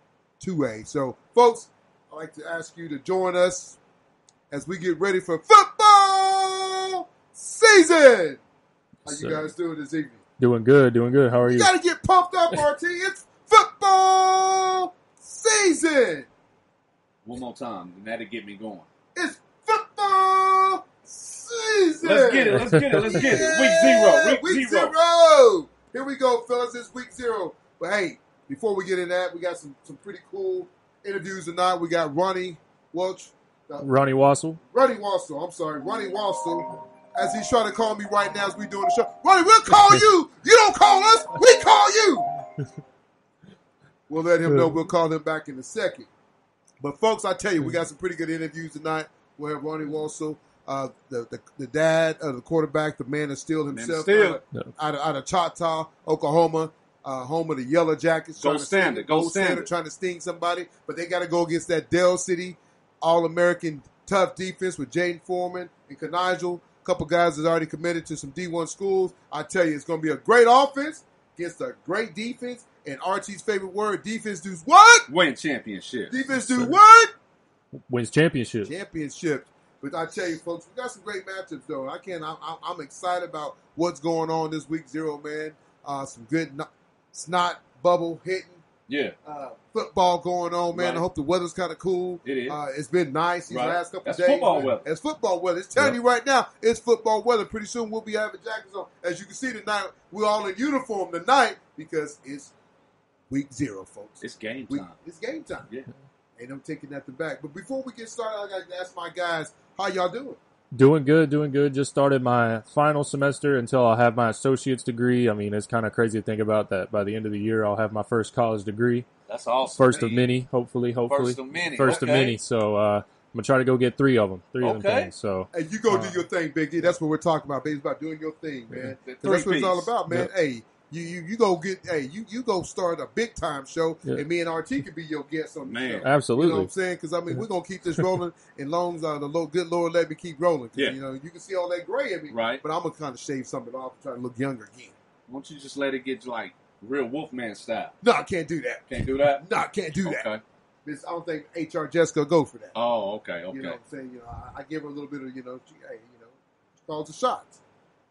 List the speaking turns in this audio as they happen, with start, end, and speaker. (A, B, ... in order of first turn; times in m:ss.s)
0:00.4-0:03.8 A
0:04.5-0:08.4 A
0:09.0-0:09.5 B
0:09.1-0:10.2 A
0:10.4-0:11.7 B
0:11.4-0:16.3 A
0:17.2-0:18.9 C
0:19.2-0:34.0 A
0:22.0-0:24.9 C
0:22.5-0:23.4 B
0:33.8-0:34.6 B
0:34.7-0:42.4 A
0:44.1-0:46.1 A
0:44.5-0:44.7 B
0:46.8-1:15.1 A
0:53.7-0:54.4 C
0:58.4-0:59.7 C
1:15.1-1:16.2 C
1:16.1-1:17.1 A
1:16.4-1:16.8 B
1:17.8-1:18.7 B
1:18.6-1:28.6 A
1:28.9-1:29.2 C
1:29.2-1:42.5 A
1:30.7-1:31.0 C
1:32.2-1:32.6 C
1:33.5-1:34.8 C
1:43.3-1:45.7 A
1:44.2-1:44.9 C
1:46.4-1:50.4 A
1:50.7-1:59.1 B
1:59.3-2:00.3 C
1:59.7-2:06.2 B
2:01.1-2:02.4 C
2:04.6-2:05.1 C
2:05.5-2:25.0 A
2:09.0-2:09.9 C
2:15.7-2:16.1 C
2:16.0-2:16.7 B
2:22.3-2:22.6 C
2:25.3-2:28.0 C
2:28.0-2:30.3 A
2:28.9-2:29.4 C
2:30.0-2:30.4 C
2:30.8-2:32.8 A
2:32.8-2:33.8 C
2:33.5-2:37.6 A